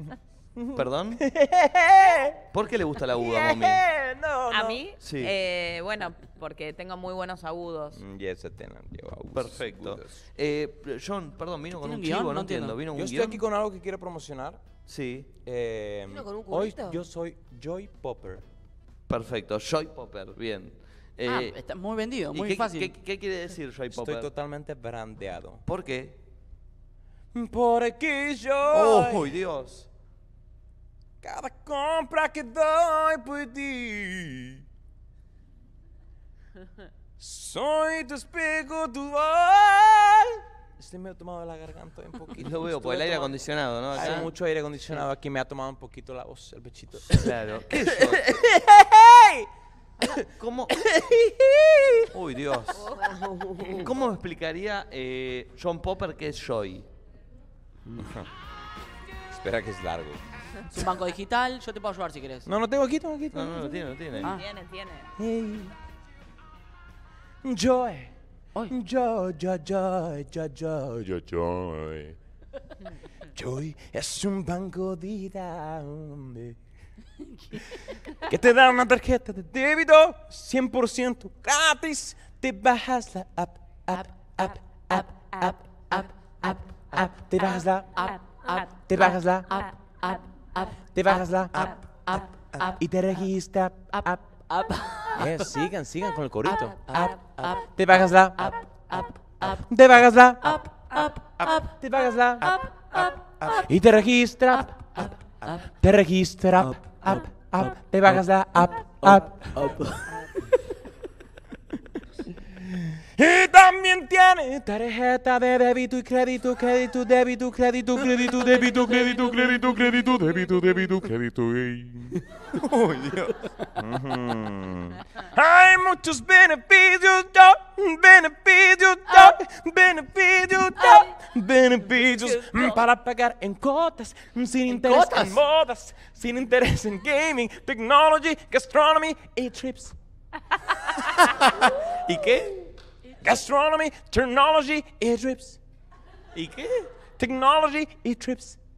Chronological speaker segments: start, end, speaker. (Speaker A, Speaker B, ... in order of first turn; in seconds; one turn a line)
Speaker A: 0.6-2.4
Speaker B: 0.7-1.2
Speaker B: 2.5-3.8
Speaker A: 3.0-4.8
Speaker C: 4.5-8.0
Speaker B: 5.0-5.3
Speaker A: 8.0-10.2
Speaker B: 9.3-13.4
Speaker D: 11.8-12.8
Speaker A: 12.9-14.6
Speaker B: 14.9-15.3
Speaker A: 15.4-18.4
Speaker E: 16.1-17.0
Speaker B: 19.1-21.6
Speaker D: 21.2-22.9
Speaker B: 22.3-24.3
Speaker A: 23.9-25.6
Speaker B: 25.6-26.2
Speaker A: 27.3-29.3
Speaker B: 28.7-29.9
Speaker A: 31.2-34.6
Speaker A: 37.2-43.3
Speaker B: 42.4-44.3
Speaker A: 43.9-49.5
Speaker B: 47.1-48.2
Speaker B: 50.1-50.9
Speaker A: 50.8-52.0
Speaker B: 52.1-52.8
Speaker E: 52.7-53.9
Speaker B: 53.7-56.9
Speaker A: 58.0-58.3
Speaker A: 59.3-60.2
Speaker D: 60.7-62.5
Speaker A: 62.5-64.2
Speaker B: 63.3-64.3
Speaker C: 64.3-65.1
Speaker A: 65.2-65.7
Speaker A: 67.4-68.1
Speaker A: 68.7-72.2
Speaker A: 73.3-76.5
Speaker A: 78.3-89.7
Speaker A: 90.9-94.2
Speaker D: 94.5-95.4
Speaker A: 95.2-109.8
Speaker A: 113.2-122.2
Speaker B: 122.5-123.3
Speaker A: 123.8-139.9
Speaker C: 132.2-132.8
Speaker D: 134.7-135.3
Speaker B: 142.0-142.6
Speaker A: 143.2-145.6
Speaker B: 146.3-146.9
Speaker A: 147.2-148.6